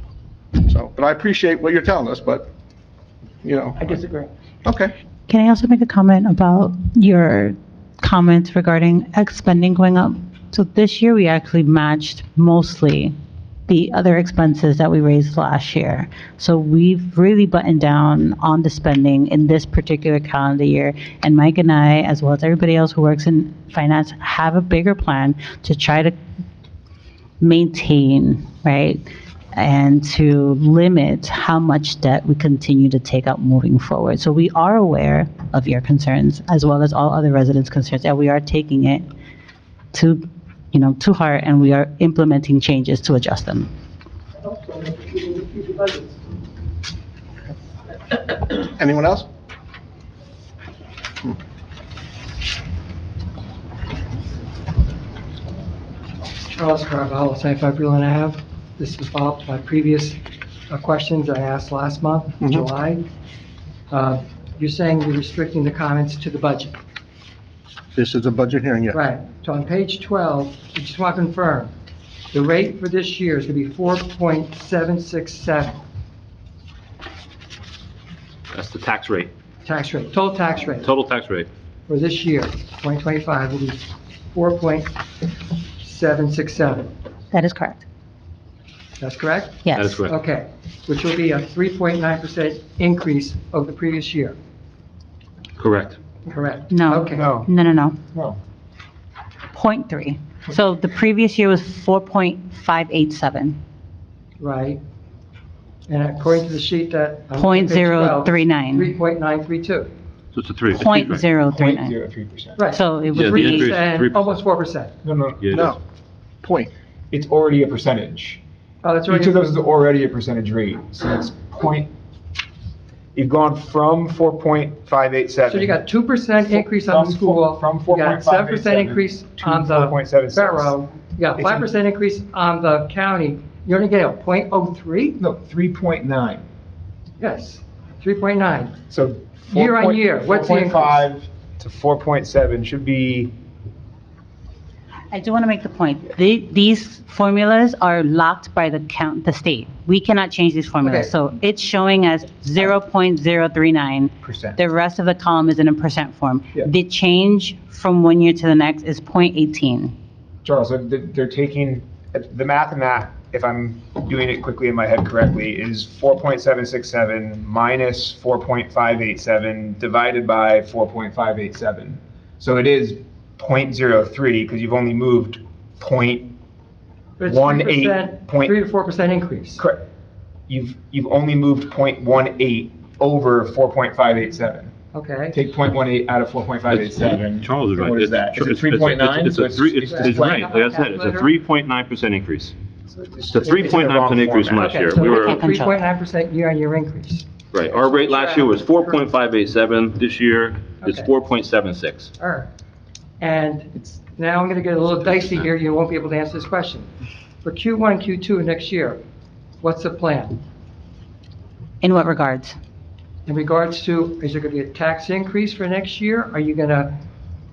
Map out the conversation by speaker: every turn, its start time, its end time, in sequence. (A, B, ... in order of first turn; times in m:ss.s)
0:00.6-0:02.5 A
0:03.4-0:03.8 A
0:03.8-0:04.3 B
0:04.6-0:04.9 A
0:05.3-0:13.1 C
0:13.7-0:26.1 C
0:27.4-0:39.1 C
0:39.9-0:43.7 C
0:48.5-0:49.3 A
0:56.5-1:03.0 B
1:03.9-1:06.8 B
1:07.9-1:09.0 A
1:08.9-1:11.7 B
1:12.3-1:15.8 B
1:18.5-1:19.3 D
1:19.6-1:20.9 B
1:20.8-1:21.5 D
1:21.9-1:24.9 B
1:25.8-1:26.9 B
1:27.3-1:27.8 C
1:29.0-1:34.3 B
1:29.6-1:30.0 C
1:29.7-1:30.1 D
1:35.6-1:36.0 D
1:36.2-1:37.3 B
1:36.7-1:38.0 C
1:37.1-1:37.5 E
1:38.1-1:38.4 E
1:39.5-1:43.6 C
1:44.4-1:44.8 B
1:45.9-1:49.9 B
1:47.3-1:48.9 C
1:50.3-1:51.2 D
1:50.7-1:51.9 C
1:51.5-1:52.6 E
1:52.6-1:54.9 B
1:52.7-1:53.7 C
1:53.1-1:54.4 D
1:55.0-1:55.5 E
1:55.4-1:55.7 D
1:55.5-1:55.8 A
1:56.4-1:56.7 A
1:57.1-1:58.4 E
1:58.8-1:59.5 B
1:59.1-2:01.9 E
2:03.1-2:05.8 E
2:05.5-2:15.2 B
2:06.4-2:10.8 E
2:11.4-2:11.7 E
2:15.2-2:16.4 E
2:17.2-2:18.8 B
2:18.9-2:23.3 E
2:19.5-2:21.1 B
2:25.1-2:39.9 C
2:34.2-2:34.6 E
2:40.4-2:56.3 E
2:57.2-2:59.6 B
2:57.2-2:58.5 E
2:59.6-2:59.8 E
3:00.5-3:04.7 E
3:04.9-3:05.4 B
3:05.3-3:10.5 E
3:06.7-3:12.5 D
3:09.9-3:11.4 B
3:12.9-3:14.7 E
3:13.3-3:15.4 D
3:14.5-3:19.1 B
3:15.0-3:15.8 C
3:17.5-3:22.1 D
3:20.8-3:21.1 B
3:22.2-3:22.5 B
3:23.2-3:26.9 B
3:27.4-3:29.0 B
3:29.6-3:30.4 B
3:31.8-3:32.6 C
3:33.2-3:37.0 B